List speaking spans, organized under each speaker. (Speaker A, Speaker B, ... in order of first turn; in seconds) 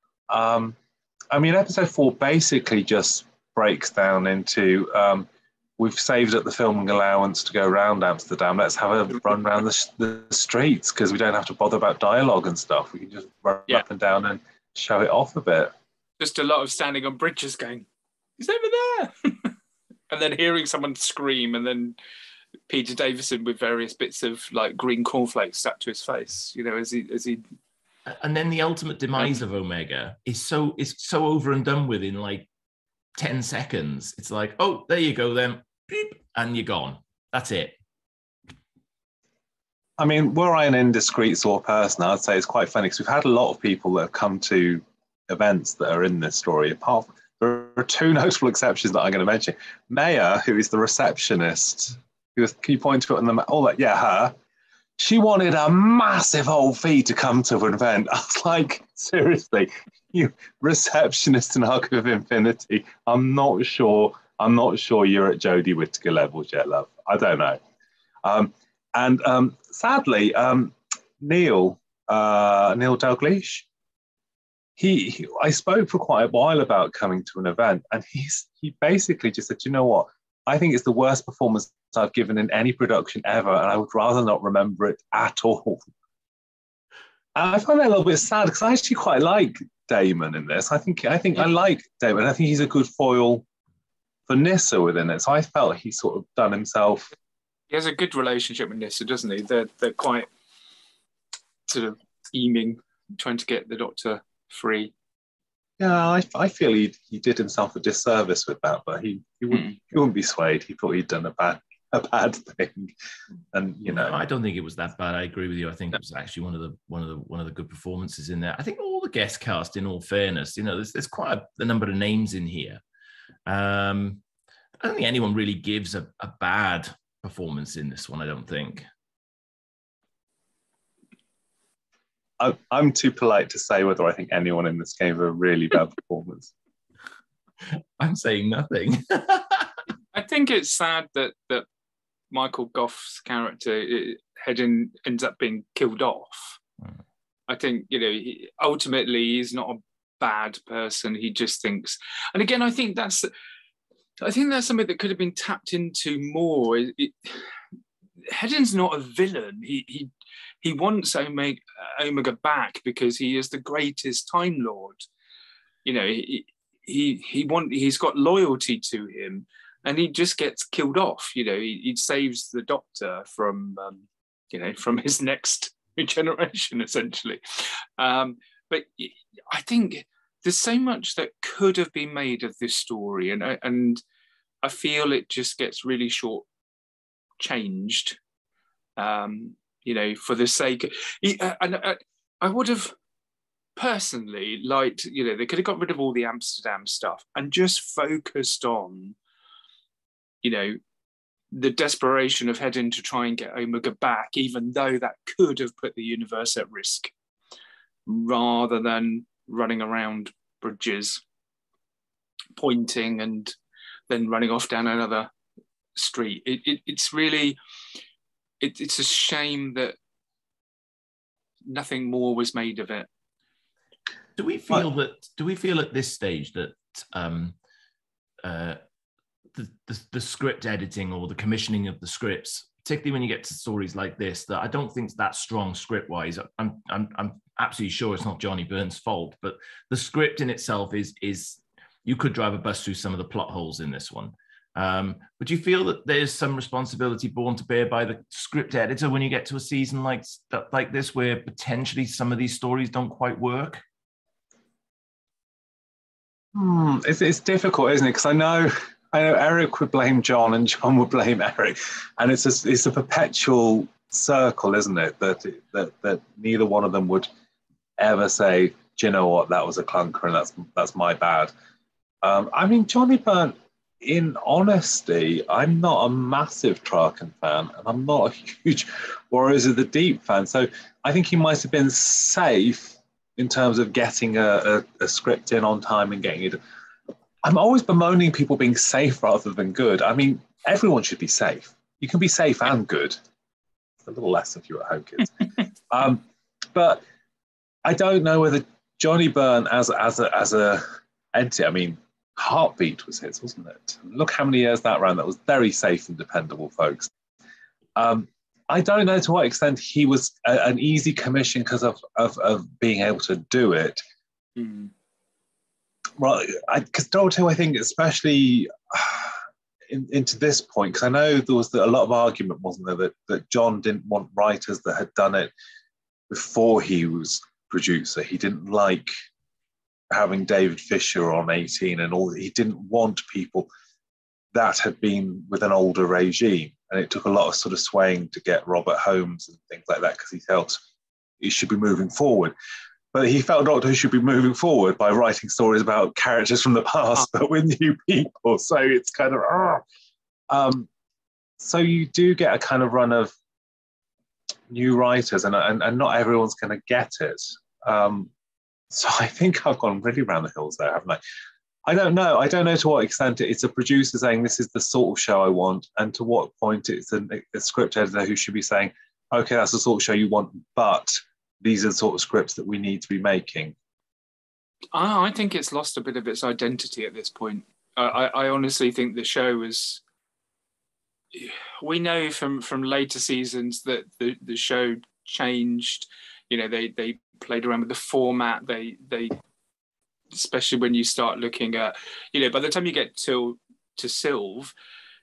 Speaker A: 0.3-0.8, 1.3-5.3, 5.8-15.7, 40.0-54.3, 55.0-67.6, 68.2-73.7, 74.8-85.9, 87.3-93.4, 94.3-97.1, 105.8-112.9, 113.5-114.2, 132.4-136.5, 256.5-267.3, 268.0-271.5, 272.2-286.6, 287.4-293.2, 294.0-295.3, 295.9-297.0, 297.8-307.1, 307.9-314.0, 316.2-319.4, 319.9-325.5, 326.3-329.1, 330.1-333.7, 334.5-340.8, 341.4-342.5, 343.1-349.8, 350.5-350.9, 351.6-353.3, 354.7-358.3, 358.9-361.2, 361.9-373.7
Speaker B: 16.2-17.9, 18.4-19.5, 20.1-22.0, 22.7-27.4, 97.7-100.3, 101.7-104.9, 140.1-141.7, 142.3-146.6, 147.5-153.3, 154.2-157.5, 158.2-160.1, 160.6-165.0, 165.8-184.0, 184.6-186.4, 187.4-188.2, 189.0-192.9, 193.8-199.1, 200.4-200.8, 201.5-207.1, 208.1-211.2, 212.6-213.5, 214.1-215.3, 215.9-217.6, 218.6-219.9, 221.7-223.1, 314.6-314.9, 374.9-380.0, 381.3-389.4, 390.3-394.7
Speaker C: 28.1-32.5, 33.1-37.7, 113.9-122.8, 123.5-124.2, 124.8-128.8, 137.8-139.8, 224.4-227.5, 228.4-228.8, 229.5-253.8